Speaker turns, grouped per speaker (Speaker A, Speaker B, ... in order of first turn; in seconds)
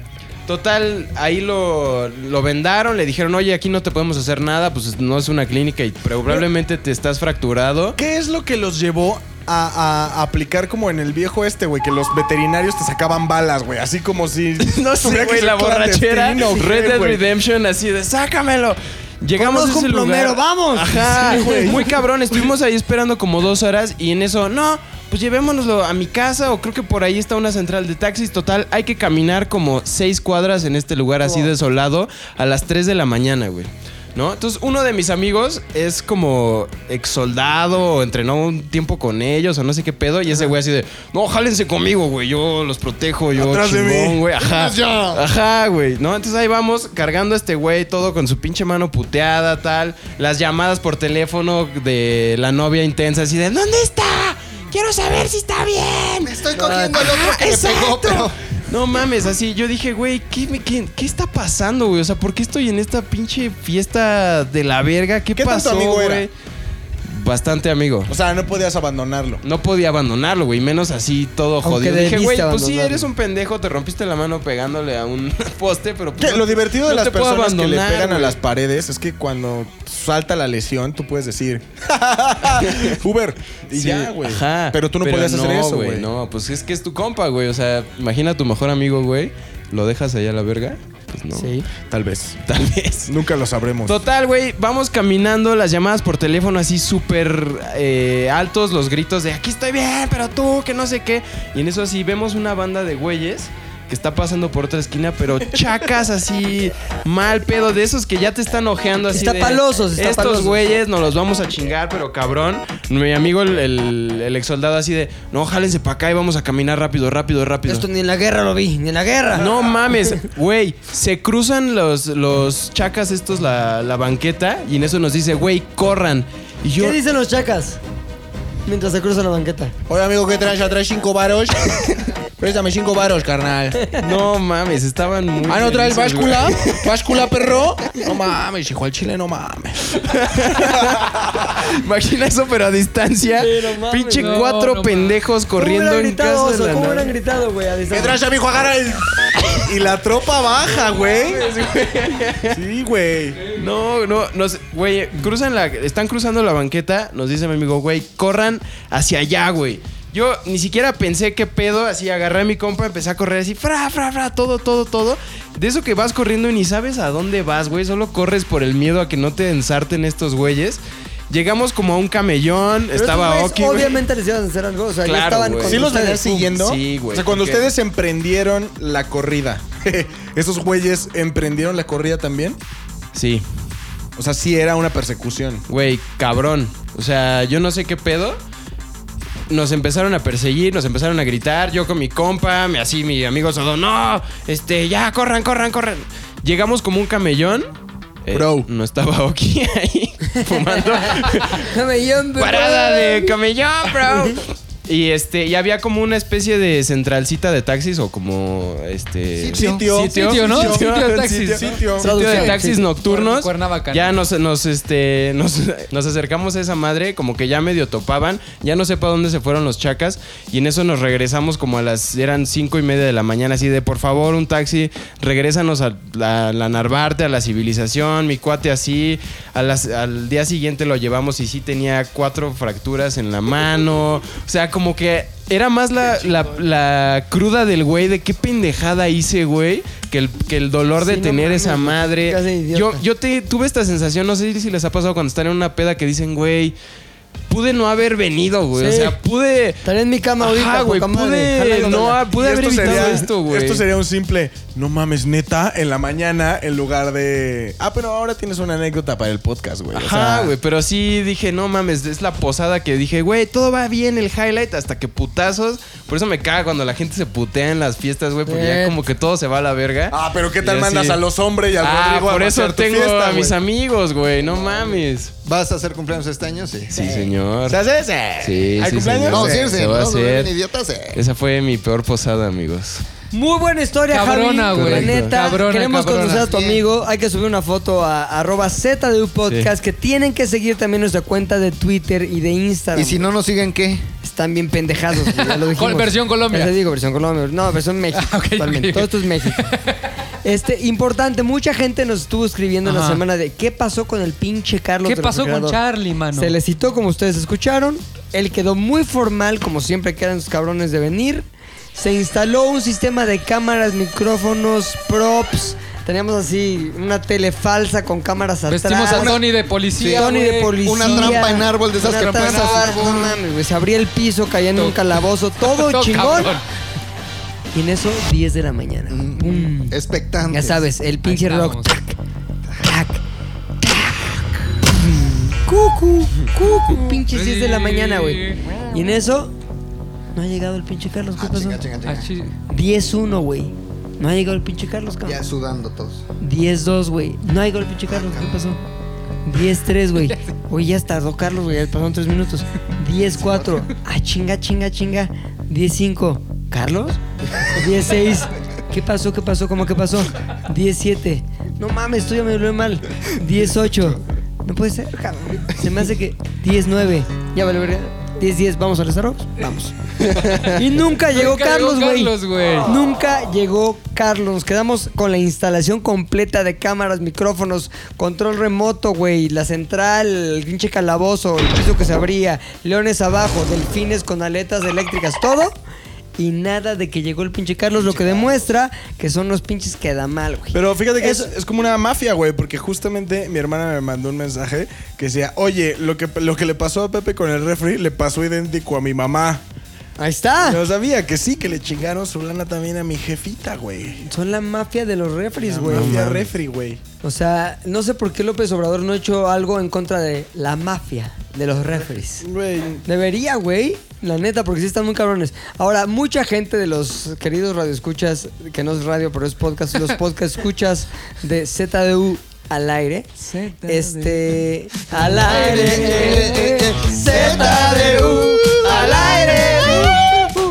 Speaker A: 0.5-8.0, 14.6-66.3, 67.0-68.1, 69.4-78.4, 83.7-91.5, 92.5-93.1, 93.9-117.9, 119.4-127.0, 134.0-137.1, 140.0-147.1, 151.1-152.6, 153.5-174.0, 175.1-175.9, 176.5-177.7, 183.1-183.4, 185.7-188.4, 189.5-197.7, 198.2-201.7, 202.4-211.2, 212.0-246.8, 247.5-249.8, 250.4-253.8, 259.9-271.2, 271.8-275.3, 276.9-277.8, 278.4-280.5, 281.1-283.0, 284.7-285.4, 370.3-370.6, 405.9-406.5
Speaker B: 8.0-17.2, 21.1-22.5, 43.4-44.2, 65.3-66.3, 68.1-69.4, 76.2-86.1, 91.9-92.4, 93.1-94.0, 129.9-133.9, 135.4-141.5, 147.9-151.5, 152.5-153.4, 175.7-182.6, 184.2-185.6, 198.3-198.7, 209.5-212.1, 252.3-260.6, 270.1-273.6, 277.7-279.7, 390.7-399.6, 400.6-404.2, 405.6-407.0, 412.4-413.1
Speaker C: 19.4-21.7, 31.2-31.5, 56.6-57.0, 71.6-73.1, 91.3-91.7, 109.1-110.7, 117.7-119.5, 126.8-127.8, 128.7-129.7, 143.4-144.5, 145.6-148.2, 172.9-176.6, 200.4-203.3, 204.1-204.4, 212.0-212.9, 241.0-243.0, 248.8-249.2, 249.8-252.2, 268.5-269.0, 283.3-293.2, 294.2-299.8, 300.4-305.8, 306.3-319.4, 320.1-326.6, 327.7-330.0, 330.5-332.1, 332.8-333.2, 333.8-339.5, 340.4-341.8, 342.7-345.4, 346.4-348.8, 349.4-369.9, 370.6-385.8, 386.4-391.5, 400.2-400.8, 404.2-406.2, 407.2-412.5, 413.1-430.2
Speaker D: 44.4-45.2, 56.2-58.4, 209.4-209.9, 275.4-277.3, 279.3-281.2, 286.5-286.8, 292.9-294.1, 319.1-320.3, 320.8-323.4, 329.1-330.9, 341.4-342.3, 345.2-346.2, 348.1-348.5, 353.4-353.9, 425.4-430.5
Speaker E: 144.2-145.2, 210.2-214.1, 284.1-286.5, 295.3-296.8, 298.1-300.0, 302.9-303.2, 305.1-306.6, 318.7-321.4, 322.1-323.1, 325.6-326.6, 331.2-331.9, 337.1-338.6, 342.1-342.5, 350.2-350.5, 371.3-373.0, 423.4-424.6